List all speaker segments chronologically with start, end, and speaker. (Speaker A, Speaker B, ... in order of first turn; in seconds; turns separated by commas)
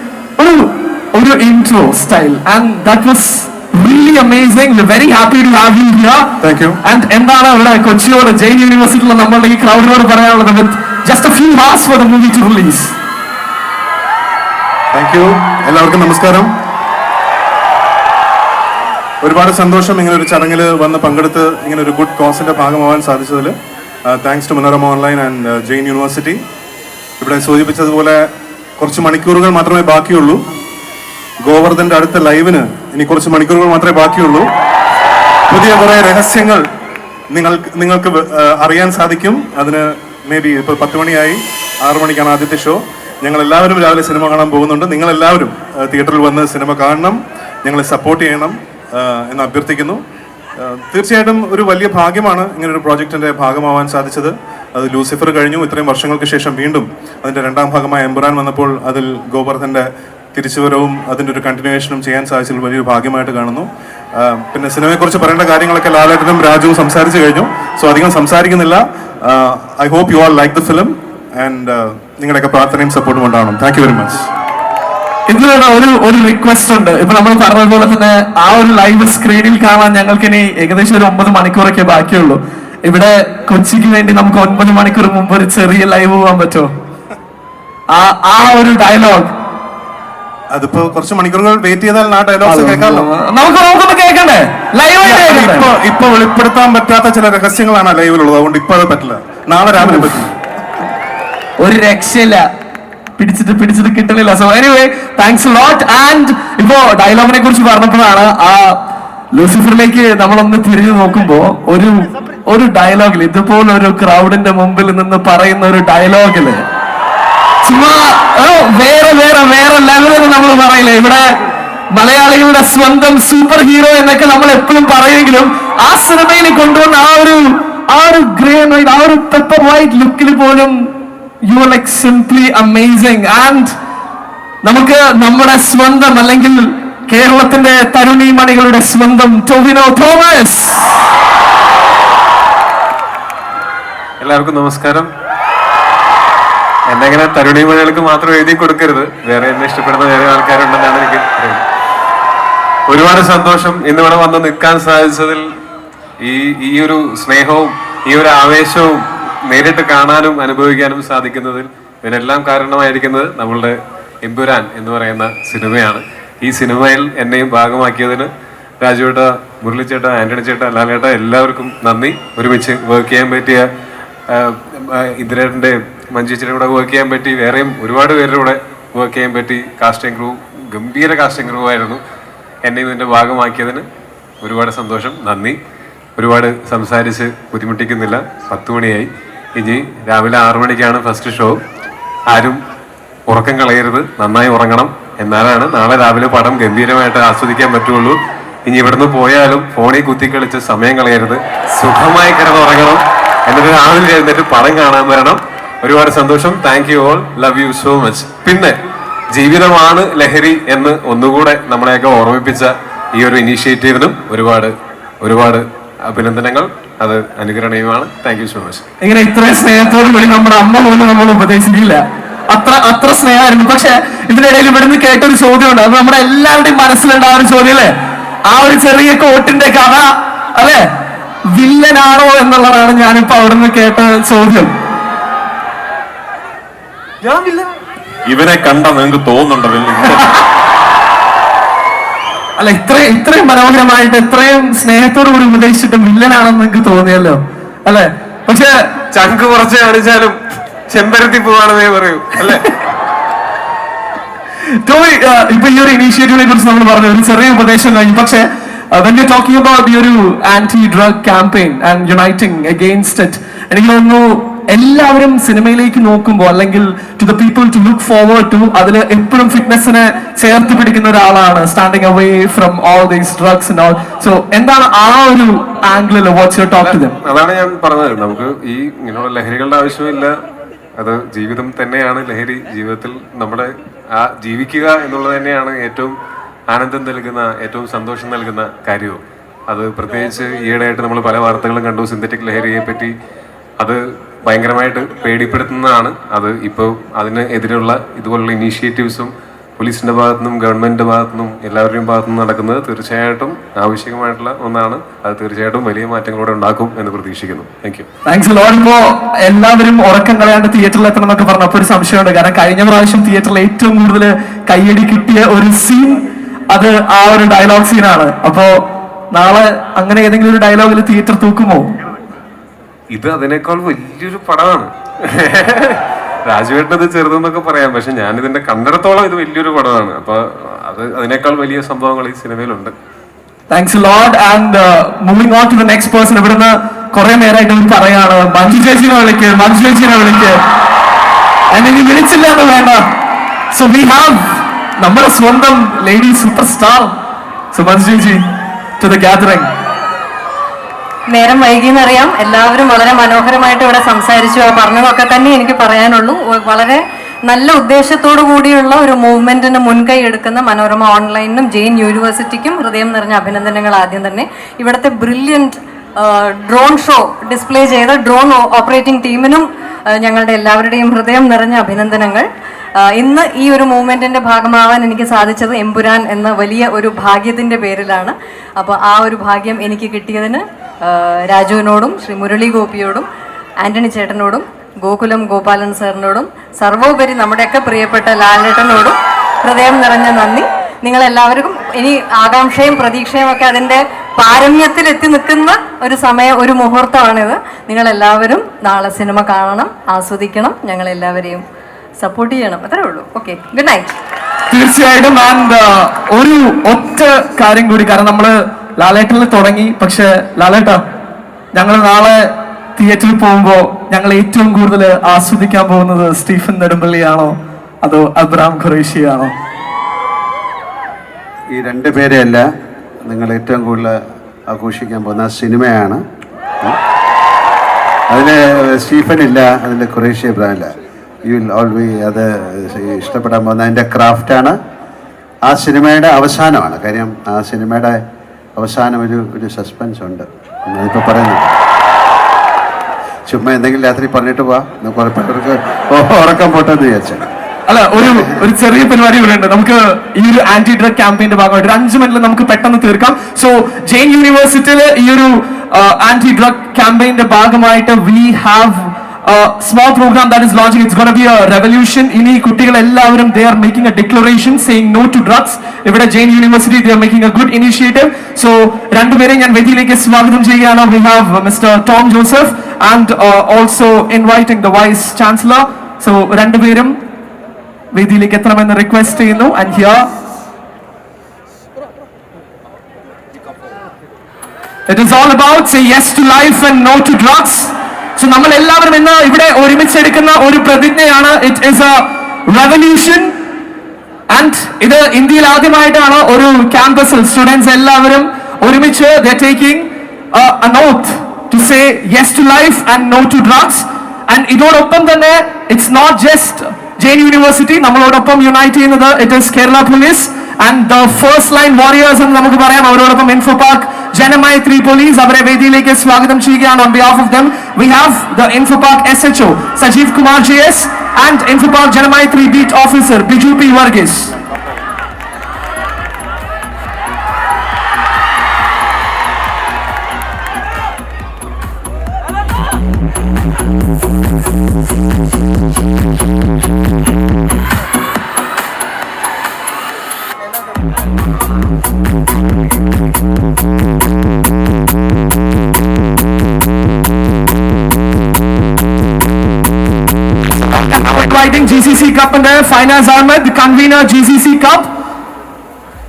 Speaker A: 0.4-12.9, Speaker B: 6.4-6.8, Speaker B: 14.9-16.5, Speaker B: 19.2-23.5, Speaker B: 24.1-26.4, Speaker B: 27.2-28.2, Speaker B: 28.8-30.4, Speaker B: 31.4-34.5, Speaker B: 35.5-36.6, Speaker B: 37.3-50.0, Speaker B: 50.6-74.3, Speaker A: 75.3-86.7, Speaker A: 87.9-89.3, Speaker B: 90.5-93.1, Speaker A: 92.4-95.7, Speaker B: 95.0-100.3, Speaker A: 99.8-100.2, Speaker A: 101.6-102.5, Speaker A: 103.2-116.6, Speaker A: 117.6-121.3, Speaker A: 121.9-133.7, Speaker A: 134.6-141.0, Speaker C: 144.2-145.1, Speaker C: 146.9-151.6, Speaker C: 152.9-155.5, Speaker C: 156.2-168.3, Speaker C: 168.8-173.7, Speaker C: 174.3-182.0, Speaker C: 182.7-183.8, Speaker C: 184.4-185.6, Speaker C: 186.2-191.6, Speaker C: 192.3-192.6, Speaker C: 193.3-208.8, Speaker C: 209.3-218.9, Speaker A: 219.0-227.9, Speaker A: 228.5-230.9, Speaker A: 231.5-234.7, Speaker C: 237.2-237.7, Speaker D: 238.2-240.3, Speaker A: 242.6-248.7, Speaker C: 249.1-252.8, Speaker A: 254.8-277.1, Speaker C: 276.8-280.4, Speaker C: 281.0-286.1, Speaker C: 286.7-293.1, Speaker C: 293.8-308.1, Speaker A: 308.2-318.7, Speaker A: 319.3-321.9, Speaker C: 323.1-332.9, Speaker A: 333.7-340.6, Speaker A: 341.7-343.1, Speaker A: 343.7-347.1, Speaker A: 347.7-348.4, Speaker A: 349.0-349.7, Speaker E: 351.3-372.5, Speaker E: 373.0-383.3, Speaker E: 383.8-401.6, Speaker E: 402.2-404.1, Speaker A: 404.7-411.0, Speaker A: 411.7-419.5, Speaker F: 421.7-422.7, Speaker F: 423.2-426.2, Speaker F: 428.3-434.8, Speaker F: 435.6-438.2, Speaker F: 438.8-441.8, Speaker F: 443.5-447.5, Speaker A: 447.9-477.2, Speaker F: 448.2-448.5, Speaker A: 478.1-480.3, Speaker A: 485.1-493.5, Speaker A: 494.5-524.6, Speaker A: 550.8-555.1